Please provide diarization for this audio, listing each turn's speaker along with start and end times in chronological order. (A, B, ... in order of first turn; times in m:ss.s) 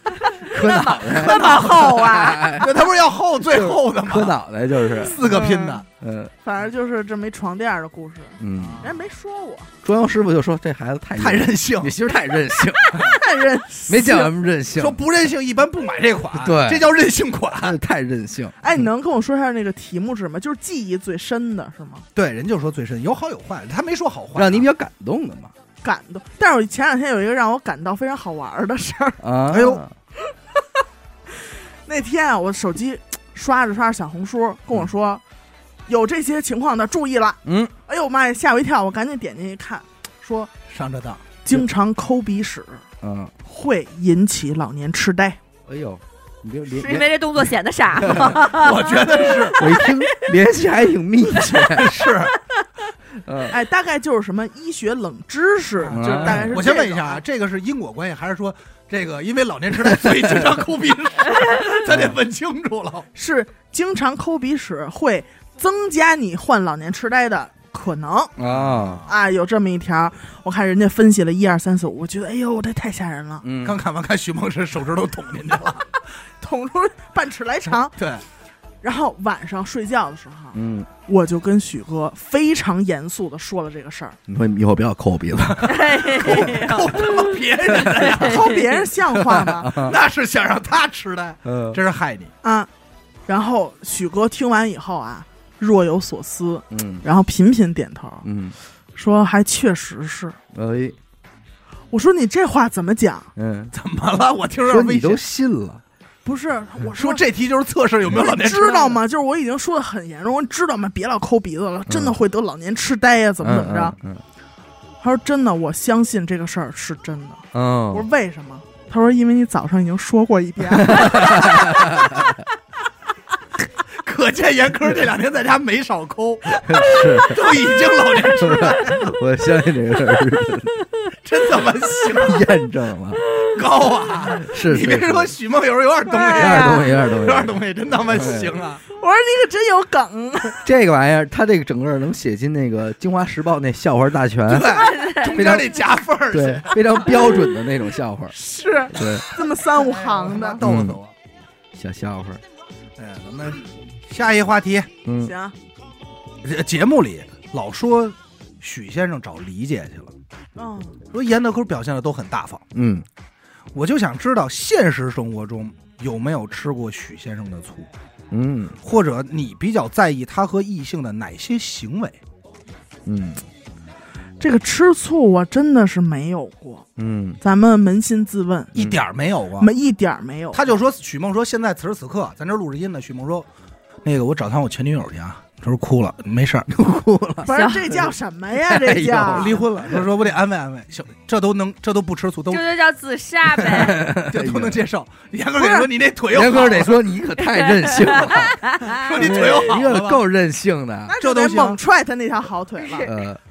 0:00.2-0:02.6 A
0:00.4-0:02.7 B
0:00.6-0:02.3 C
0:01.1-0:01.8 D
0:02.5-0:04.4 D
0:03.5-0:05.2 B
0:04.9-0:05.8 D
0:05.1-0:05.8 A
0:06.0-0:06.3 B
0:06.4-0:09.7 A
0:08.4-0:08.8 B
0:08.5-0:08.9 D
0:09.8-0:13.2 B
0:11.2-0:12.0 D
0:12.9-0:14.3 A
0:13.9-0:15.0 B
0:14.7-0:17.8 D
0:16.3-0:16.9 B
0:17.5-0:18.5 B
0:18.6-0:22.0 A
0:22.1-0:24.7 D
0:24.4-0:25.5 B
0:25.8-0:29.7 A
0:29.2-0:29.9 B
0:29.5-0:29.8 D
0:31.3-0:35.2 A
0:35.9-0:40.5 A
0:37.4-0:37.7 B
0:40.7-0:41.2 D
0:41.4-0:42.8 A
0:43.0-0:43.3 B
0:43.4-0:45.4 A
0:45.7-0:47.1 B
0:46.7-0:50.1 C
0:48.0-0:48.4 B
0:48.3-0:49.6 D
0:49.5-0:52.1 B
0:51.6-0:52.3 D
0:53.2-0:53.6 B
0:53.5-0:57.2 A
0:55.9-0:56.6 B
0:55.9-1:03.0 D
1:00.0-1:00.5 B
1:01.8-1:02.2 B
1:03.1-1:08.3 A
1:08.4-1:09.0 B
1:08.4-1:09.1 D
1:09.1-1:13.4 A
1:13.4-1:13.8 B
1:13.6-1:15.9 D
1:16.4-1:18.0 A
1:17.9-1:18.2 D
1:18.8-1:24.2 A
1:20.5-1:20.9 B
1:24.3-1:26.5 B
1:25.6-1:28.7 C
1:25.6-1:28.5 D
1:28.1-1:29.7 A
1:29.0-1:30.0 B
1:29.7-1:32.3 D
1:31.4-1:31.8 B
1:32.4-1:32.7 A
1:33.3-1:38.2 A
1:36.7-1:37.0 B
1:38.2-1:38.6 B
1:39.0-1:40.4 A
1:40.5-1:41.0 B
1:41.9-1:43.3 A
1:43.4-1:43.7 B
1:43.7-1:45.2 D
1:44.7-1:45.8 B
1:46.2-1:47.2 A
1:46.9-1:49.0 D
1:48.1-1:53.9 A
1:51.9-1:52.1 B
1:53.4-1:54.2 B
1:55.0-2:01.9 A
1:57.5-1:58.1 B
2:00.7-2:02.3 B
2:03.9-2:09.1 D
2:06.6-2:07.5 B
2:08.3-2:10.8 B
2:11.2-2:12.5 D
2:12.1-2:13.3 B
2:13.5-2:18.8 D
2:14.3-2:15.3 B
2:16.1-2:16.9 A
2:16.3-2:18.5 B
2:18.9-2:20.6 A
2:20.6-2:25.8 B
2:24.5-2:27.2 D
2:24.7-2:25.3 C
2:26.3-2:28.4 B
2:28.3-2:30.6 A
2:28.9-2:29.2 B
2:29.8-2:31.1 D
2:30.6-2:31.0 B
2:31.7-2:32.4 B
2:33.0-2:34.9 D
2:35.0-2:35.3 B
2:35.2-2:35.5 A
2:36.4-2:40.1 D
2:40.6-2:41.0 A
2:41.1-2:42.6 D
2:42.7-2:43.0 B
2:43.7-2:47.9 D
2:48.3-2:48.8 B
2:48.8-2:52.2 D
2:53.0-2:53.4 B
2:54.4-2:56.8 A
2:57.0-2:57.4 B
2:57.4-2:58.7 A
2:58.7-2:59.7 D
2:59.6-3:00.8 A
3:00.5-3:03.5 D
3:04.0-3:06.7 D
3:06.7-3:08.0 B
3:07.4-3:09.6 A
3:07.5-3:07.9 C
3:08.6-3:10.1 B
3:09.2-3:12.7 D
3:12.5-3:14.1 C
3:13.6-3:14.8 B
3:13.9-3:17.0 D
3:15.6-3:15.9 A
3:16.3-3:21.2 B
3:17.4-3:19.6 C
3:18.9-3:20.2 D
3:21.1-3:23.1 A
3:21.2-3:21.8 D
3:22.8-3:23.1 C
3:23.0-3:23.4 B